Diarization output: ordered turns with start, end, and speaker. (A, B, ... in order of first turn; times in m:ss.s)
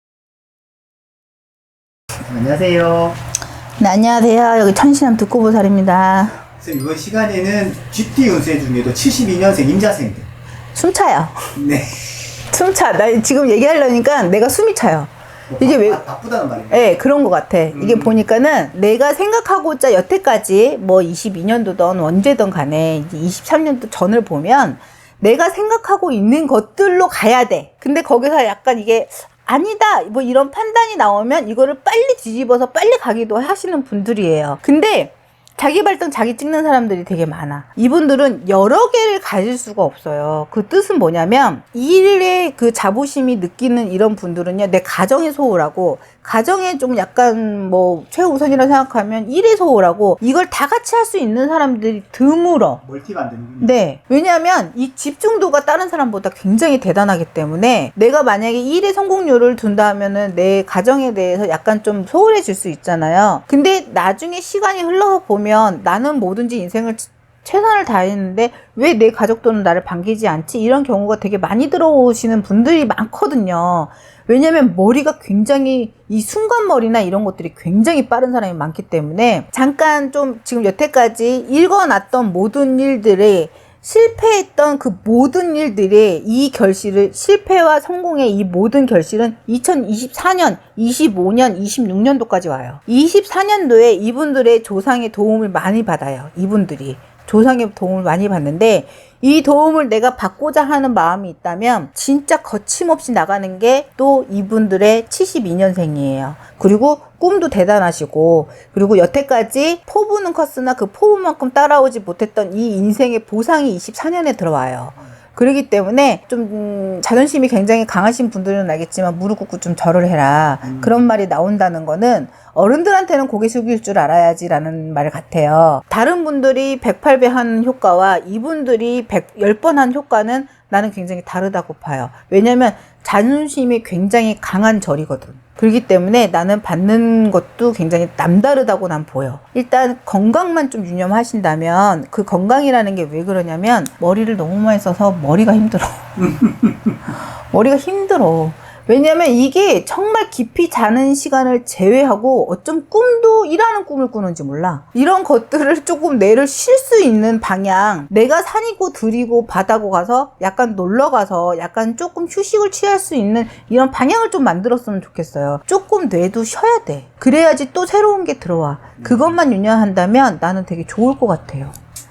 0:02.2-0:03.2 A
0:03.8-0:06.4 B
0:06.6-0:10.3 A
0:10.8-0:11.5 B
0:11.6-0:12.0 A
0:12.5-0:16.0 B
0:15.5-0:16.8 A
0:16.7-0:52.8 B
0:17.8-0:18.1 A
0:52.9-0:53.7 A
0:53.6-2:51.8 B